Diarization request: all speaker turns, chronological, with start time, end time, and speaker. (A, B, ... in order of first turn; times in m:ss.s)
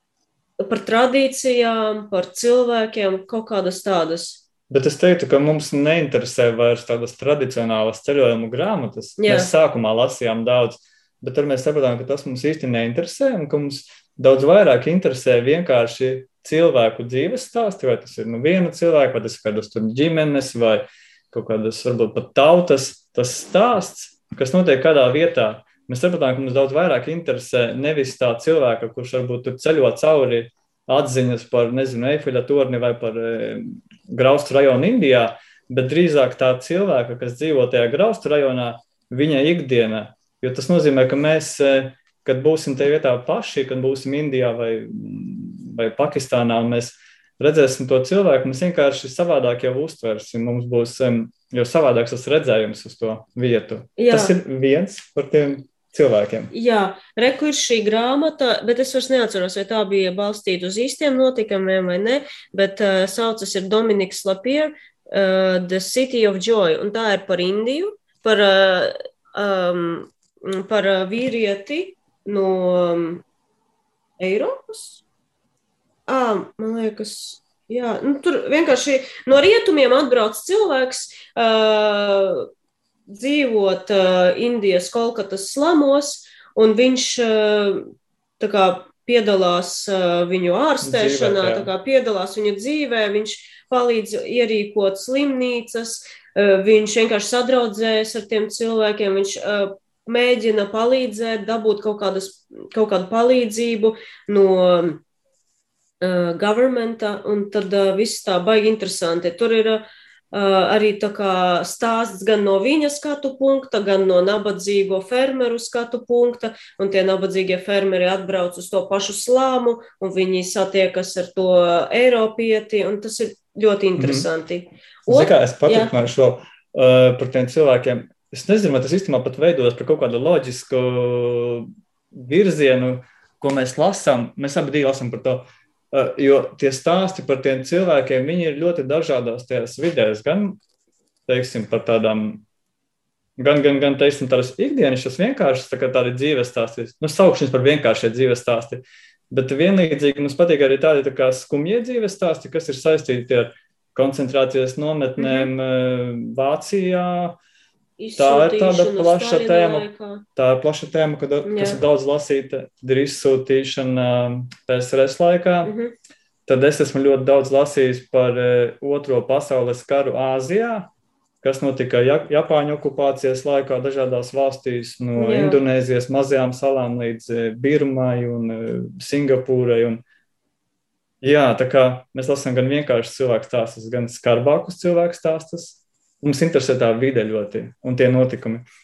0:00.6-0:04.4 A
0:04.7-0:56.5 B
0:09.2-0:09.5 A
0:54.0-0:54.4 A
0:56.5-1:13.2 A
1:14.2-1:15.0 A
1:16.1-1:22.5 A
1:23.1-1:45.0 A
1:30.8-1:31.7 B
1:46.0-2:05.9 A
2:04.0-2:04.3 B
2:05.1-2:20.6 B
2:21.3-2:22.4 B
2:23.4-2:37.4 B
2:35.2-2:35.5 A
2:38.0-2:40.2 A
2:38.2-2:45.7 B
2:41.4-2:41.8 A
2:45.6-2:45.9 A
2:46.5-3:00.0 B
2:55.2-2:55.6 A
3:01.2-3:08.7 B